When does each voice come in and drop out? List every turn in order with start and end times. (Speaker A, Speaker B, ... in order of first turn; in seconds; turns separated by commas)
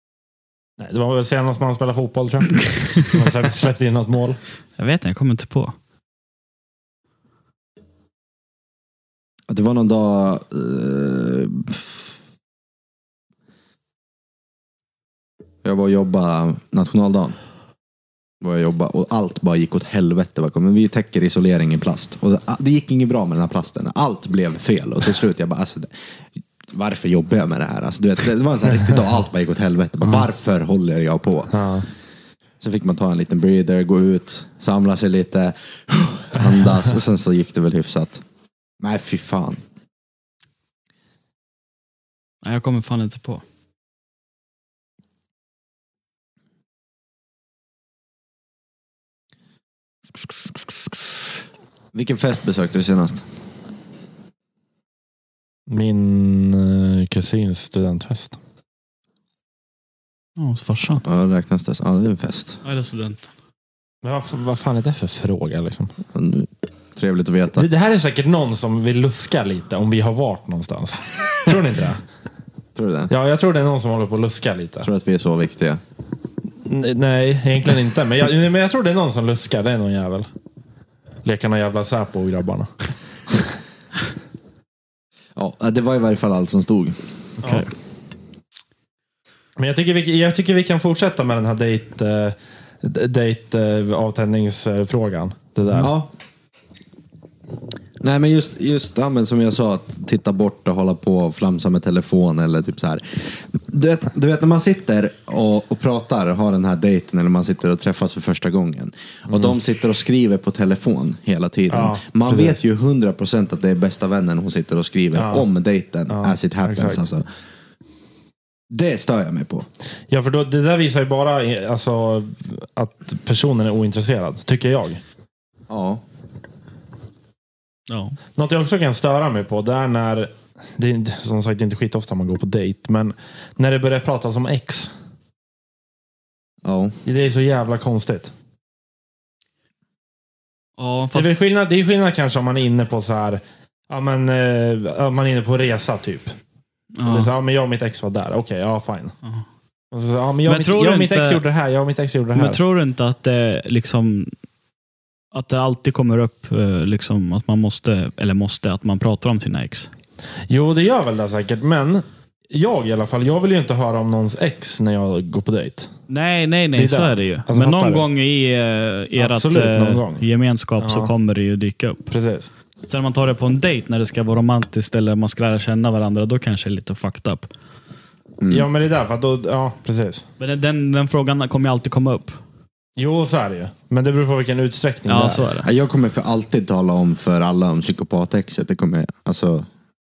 Speaker A: 0.8-4.4, Speaker B: 4.8-5.7, Speaker C: 9.5-12.0, Speaker C: 15.6-17.4, Speaker C: 18.4-26.0, Speaker C: 26.7-31.6, Speaker A: 31.5-31.9, Speaker C: 32.6-38.2, Speaker C: 38.8-39.6, Speaker B: 42.4-43.4, Speaker C: 51.9-53.2, Speaker A: 55.7-58.4, Speaker B: 60.4-61.0, Speaker C: 61.0-62.6, Speaker B: 62.6-63.3, Speaker A: 64.0-65.9, Speaker C: 66.1-67.7, Speaker A: 67.5-72.0, Speaker C: 72.7-73.1, Speaker A: 73.1-74.9, Speaker C: 74.8-75.8, Speaker A: 76.6-80.3, Speaker A: 81.2-82.7, Speaker C: 85.3-87.0, Speaker A: 87.4-87.7, Speaker B: 87.4-87.7, Speaker A: 89.6-95.9, Speaker C: 95.8-96.1, Speaker C: 98.0-117.3, Speaker A: 111.7-112.5, Speaker A: 115.1-115.5, Speaker A: 116.1-117.0, Speaker C: 118.7-119.7, Speaker A: 120.1-125.0, Speaker C: 125.7-126.0, Speaker B: 127.9-128.2, Speaker A: 128.3-134.9, Speaker C: 136.6-136.9, Speaker A: 137.1-138.3, Speaker B: 140.8-141.3, Speaker A: 141.1-146.3, Speaker B: 147.0-147.3, Speaker A: 147.1-149.2, Speaker A: 149.9-152.6, Speaker B: 150.5-151.4, Speaker B: 152.3-154.3, Speaker B: 155.3-159.9, Speaker A: 160.5-165.9, Speaker B: 166.1-172.0, Speaker A: 166.8-168.1, Speaker A: 169.2-170.2, Speaker A: 170.8-171.1, Speaker A: 172.1-172.5, Speaker B: 172.9-177.5, Speaker C: 178.4-178.7, Speaker A: 178.5-180.2, Speaker B: 180.4-182.4, Speaker A: 183.0-185.5, Speaker B: 185.1-185.7, Speaker C: 185.6-189.7